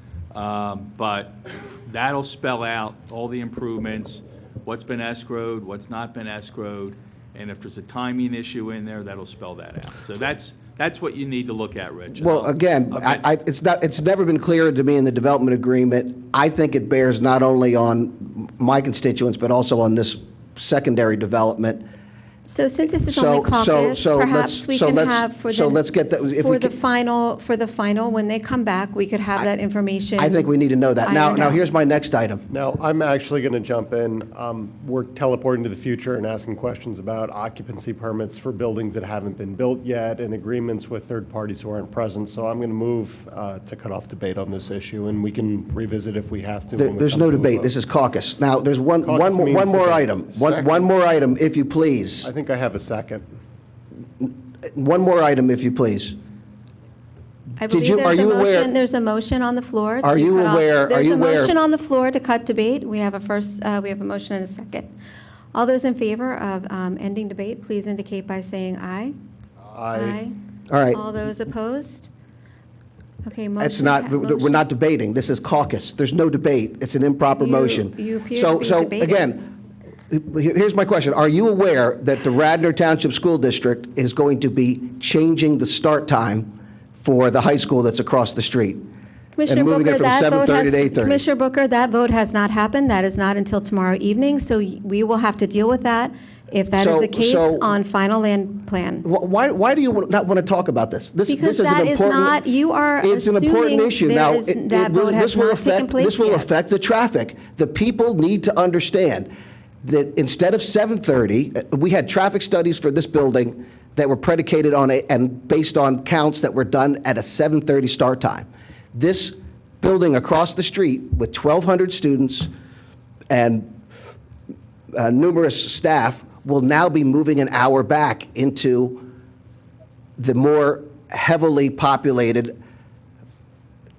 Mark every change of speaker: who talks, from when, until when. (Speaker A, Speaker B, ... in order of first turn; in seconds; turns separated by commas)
Speaker A: 0.3-13.2, Speaker B: 12.1-21.8, Speaker C: 22.5-25.8, Speaker B: 23.1-26.8, Speaker C: 26.4-30.4, Speaker B: 30.2-32.4, Speaker C: 31.0-31.6, Speaker D: 32.5-47.7, Speaker B: 46.8-52.3, Speaker D: 49.0-50.6, Speaker D: 52.2-53.2, Speaker B: 54.2-56.2, Speaker C: 57.6-64.9, Speaker B: 57.7-58.7, Speaker B: 60.0-61.5, Speaker C: 65.5-69.1, Speaker D: 69.6-70.2, Speaker C: 69.9-70.3, Speaker B: 70.7-71.0, Speaker C: 70.9-72.1, Speaker C: 73.2-74.6, Speaker B: 73.6-79.5, Speaker C: 77.4-79.3, Speaker B: 80.1-88.8, Speaker C: 89.3-99.0, Speaker B: 89.5-91.2, Speaker B: 96.7-97.7, Speaker B: 99.0-102.4, Speaker C: 101.3-106.5, Speaker B: 103.0-109.3, Speaker B: 109.8-122.5, Speaker B: 123.3-123.7, Speaker B: 124.9-129.1, Speaker B: 130.2-132.6